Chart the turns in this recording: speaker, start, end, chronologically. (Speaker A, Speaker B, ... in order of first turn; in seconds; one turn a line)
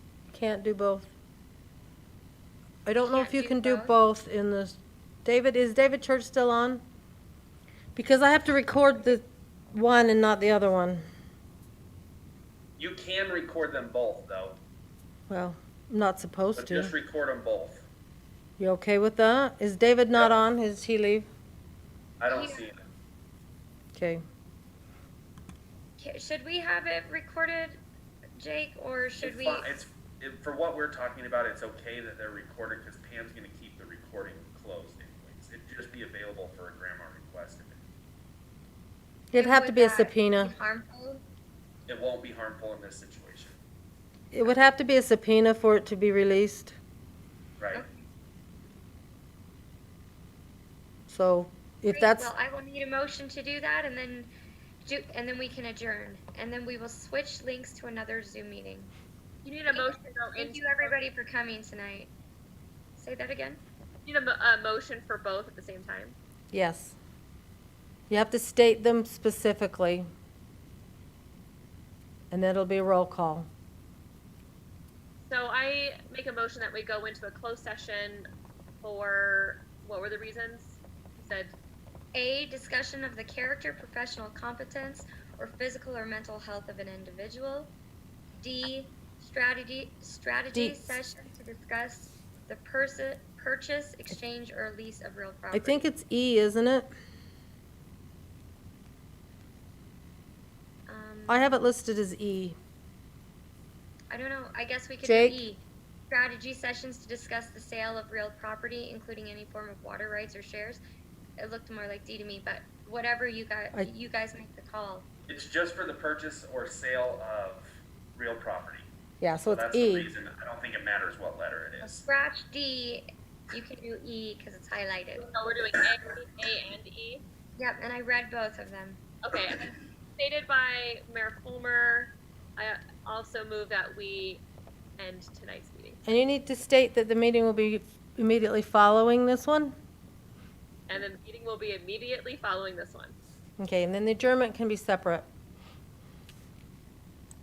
Speaker A: 0.3-1.1
Speaker A: 2.9-6.8
Speaker B: 3.0-4.0
Speaker A: 8.0-11.0
Speaker C: 12.8-14.6
Speaker A: 15.3-16.9
Speaker C: 16.6-17.9
Speaker A: 18.6-21.3
Speaker C: 22.2-22.9
Speaker B: 22.3-22.6
Speaker A: 24.0-24.2
Speaker B: 26.0-27.8
Speaker B: 28.4-29.8
Speaker C: 29.2-37.8
Speaker A: 39.3-40.5
Speaker B: 39.4-41.2
Speaker C: 41.9-43.6
Speaker A: 44.3-46.8
Speaker C: 47.6-47.8
Speaker B: 47.7-48.1
Speaker A: 51.1-52.3
Speaker B: 51.9-54.3
Speaker B: 54.8-58.9
Speaker D: 59.4-61.0
Speaker B: 59.7-62.1
Speaker B: 63.0-63.6
Speaker D: 64.0-66.2
Speaker A: 66.5-67.0
Speaker A: 68.1-70.1
Speaker A: 72.3-73.5
Speaker D: 75.2-78.3
Speaker D: 78.8-81.5
Speaker B: 82.1-87.7
Speaker B: 88.4-95.8
Speaker A: 90.5-91.0
Speaker A: 95.5-96.9
Speaker B: 100.9-101.5
Speaker A: 101.3-102.6
Speaker B: 104.1-110.8
Speaker A: 105.0-105.4
Speaker B: 111.4-115.1
Speaker C: 115.3-118.9
Speaker A: 119.2-120.1
Speaker C: 119.5-122.1
Speaker B: 121.8-125.3
Speaker D: 125.3-127.2
Speaker B: 127.6-129.0
Speaker D: 129.2-134.4
Speaker D: 135.0-136.0
Speaker A: 136.1-139.7
Speaker D: 140.9-143.2
Speaker A: 143.6-145.3